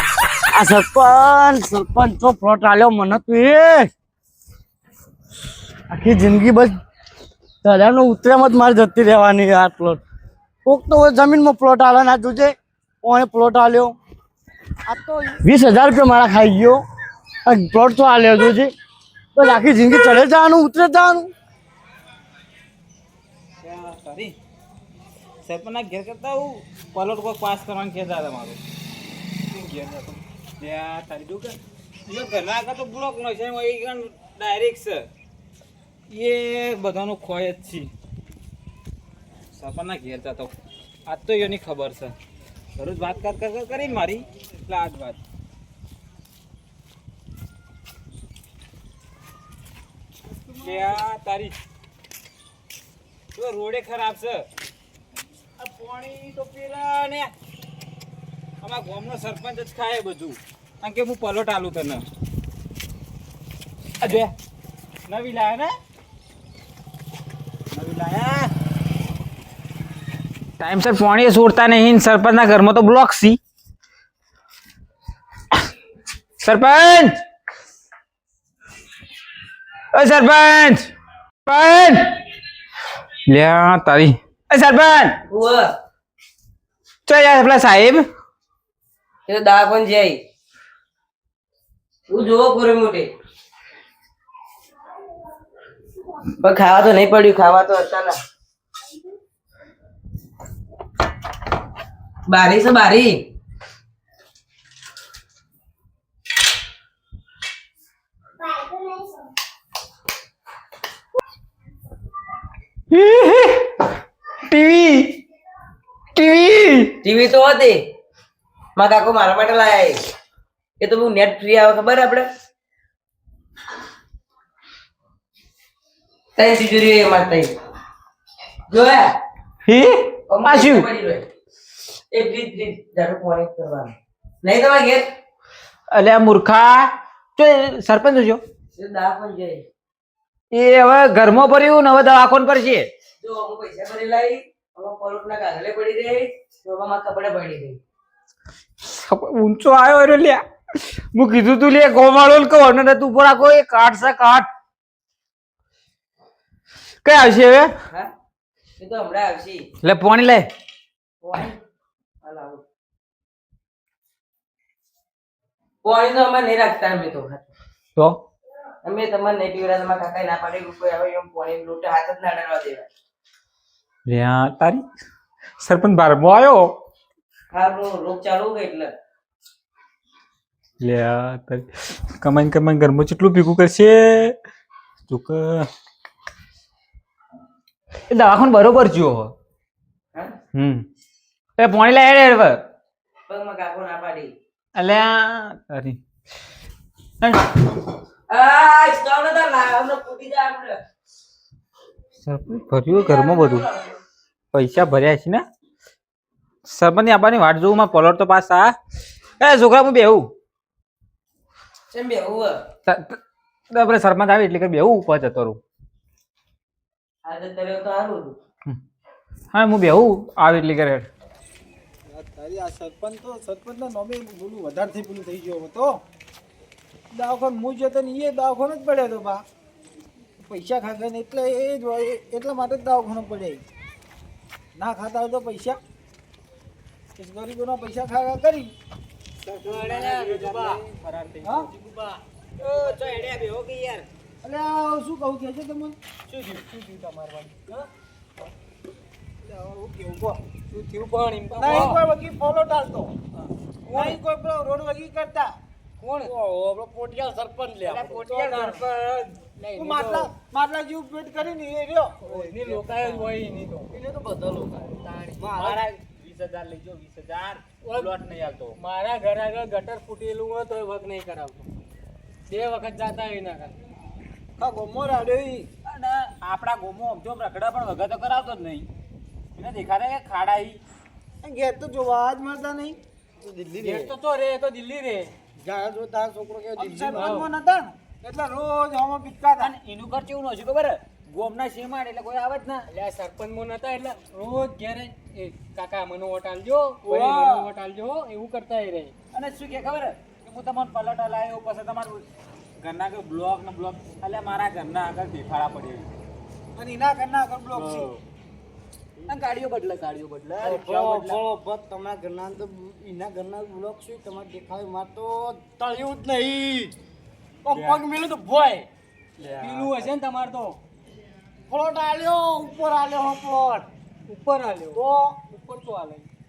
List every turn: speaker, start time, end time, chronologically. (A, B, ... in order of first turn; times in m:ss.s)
0:00.5-0:03.9 A
0:05.9-0:06.7 A
0:07.6-0:10.0 A
0:10.6-0:13.9 A
0:14.9-0:16.8 A
0:17.5-0:18.7 A
0:19.4-0:21.3 A
0:23.6-0:24.3 B
0:25.4-0:28.6 B
0:29.5-0:35.1 B
0:36.1-0:37.9 B
0:39.5-0:40.5 B
0:41.1-0:42.1 B
0:42.8-0:45.2 B
0:50.6-0:51.5 B
0:53.3-0:54.5 B
0:55.6-0:57.3 B
0:58.6-1:02.0 B
1:04.0-1:04.3 B
1:05.1-1:05.7 B
1:07.7-1:08.5 B
1:10.6-1:13.4 B
1:16.4-1:17.1 B
1:19.9-1:20.9 B
1:21.4-1:22.1 B
1:23.3-1:25.2 B
1:25.3-1:25.7 C
1:27.1-1:28.0 B
1:29.3-1:30.2 C
1:32.1-1:33.1 C
1:36.4-1:38.2 C
1:42.3-1:43.2 C
1:52.9-1:53.8 B
1:54.5-1:55.2 B
1:56.2-1:56.9 B
1:57.0-1:57.8 C
1:58.8-2:00.0 C
2:00.8-2:02.2 C
2:06.4-2:07.5 C
2:08.7-2:09.1 C
2:09.6-2:10.9 B
2:10.3-2:11.3 C
2:12.1-2:15.0 C
2:15.9-2:18.4 B
2:18.7-2:19.6 C
2:20.5-2:22.9 B
2:23.2-2:27.8 C
2:28.8-2:30.4 B
2:31.1-2:34.5 B
2:37.0-2:37.7 B
2:38.8-2:39.7 C
2:39.8-2:40.5 B
2:41.2-2:41.6 C
2:42.2-2:42.6 C
2:45.8-2:47.4 C
2:48.8-2:52.9 C
2:54.1-2:54.8 B
2:55.6-2:56.7 B
2:57.5-2:58.9 C
3:00.8-3:04.3 B
3:05.1-3:05.7 B
3:08.1-3:09.3 B
3:10.5-3:10.8 B
3:11.6-3:12.6 B
3:13.3-3:14.3 C
3:14.7-3:16.0 B
3:17.2-3:17.6 B
3:18.3-3:20.8 C
3:22.2-3:23.6 B
3:22.9-3:24.0 C
3:24.5-3:25.4 B
3:26.6-3:28.8 B
3:29.4-3:30.3 B
3:31.9-3:32.6 C
3:32.9-3:33.2 B
3:33.7-3:35.6 B
3:37.2-3:38.4 C
3:39.5-3:41.1 B
3:42.1-3:46.0 D
3:47.1-3:49.4 D
3:50.4-3:53.6 D
3:54.7-3:55.8 D
3:57.2-3:58.7 D
3:59.4-4:01.7 B
3:59.6-4:00.8 E
4:01.7-4:02.2 E
4:02.6-4:04.0 B
4:04.4-4:06.0 D
4:06.3-4:07.9 E
4:09.4-4:10.4 D
4:10.7-4:12.0 E
4:11.5-4:13.1 D
4:13.9-4:14.2 E
4:13.9-4:15.6 D
4:16.0-4:16.3 E
4:16.2-4:18.4 A
4:17.8-4:18.8 B
4:18.3-4:20.3 E
4:19.8-4:22.3 D
4:22.2-4:23.9 E
4:22.3-4:23.4 A
4:23.9-4:25.8 A
4:24.9-4:25.8 E
4:25.5-4:28.8 B
4:27.8-4:28.1 E
4:28.8-4:31.7 E
4:32.5-4:33.7 E
4:34.6-4:35.7 D
4:35.8-4:38.9 B
4:39.6-4:40.8 B
4:41.4-4:43.0 D
4:43.4-4:44.1 A
4:43.8-4:45.3 E
4:45.6-4:47.4 A
4:46.8-4:49.7 D
4:47.1-4:47.5 E
4:49.6-4:52.8 B
4:52.9-4:59.1 E
4:57.0-4:57.7 B
4:59.3-5:02.2 B
5:02.8-5:06.1 B
5:06.8-5:08.1 D
5:07.7-5:08.2 B
5:09.3-5:11.4 B
5:10.6-5:16.9 A
5:17.6-5:18.9 A
5:17.7-5:18.0 E
5:19.4-5:20.0 B
5:19.6-5:20.8 E
5:21.7-5:23.9 A
5:24.3-5:26.3 E
5:24.9-5:25.3 A